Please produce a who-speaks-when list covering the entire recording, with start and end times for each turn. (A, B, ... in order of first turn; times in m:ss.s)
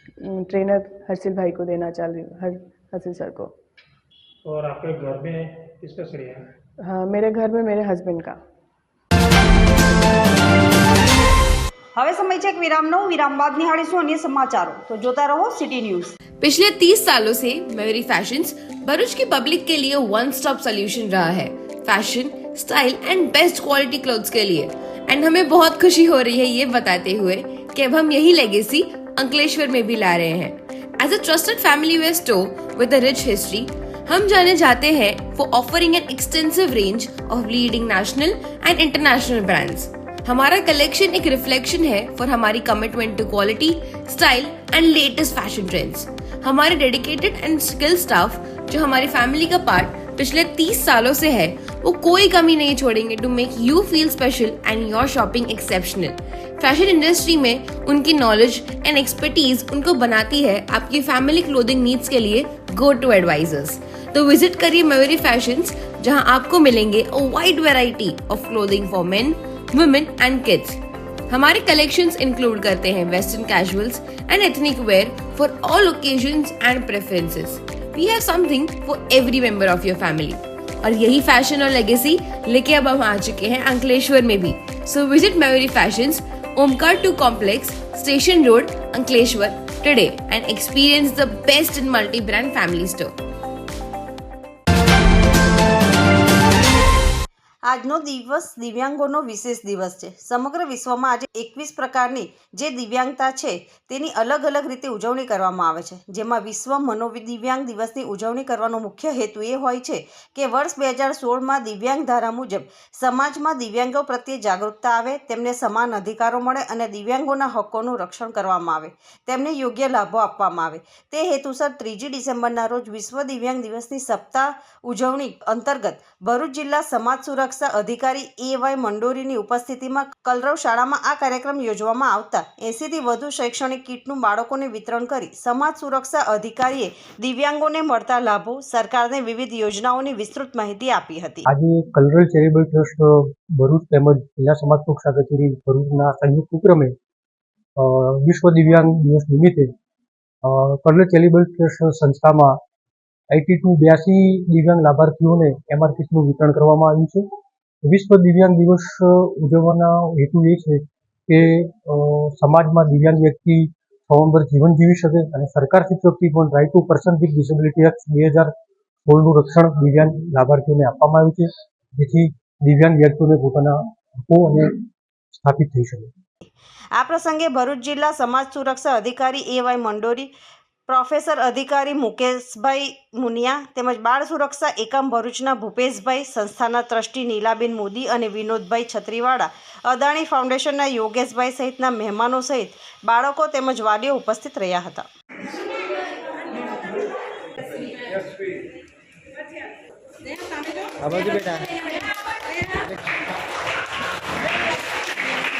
0:00.2-0:03.5 A
0:04.4-0:06.4 B
0:06.8-0:08.4 A
0:12.0-0:16.1 C
0:16.4-1:10.8 D
1:11.3-1:33.1 D
1:37.7-2:21.4 C
2:21.5-2:27.0 E
2:27.8-2:29.7 E
2:30.4-2:32.6 E
2:33.3-2:37.2 E
2:37.8-2:48.5 E
2:49.1-2:54.8 E
2:55.4-2:56.1 E
2:57.0-3:00.3 C
3:00.9-3:15.1 C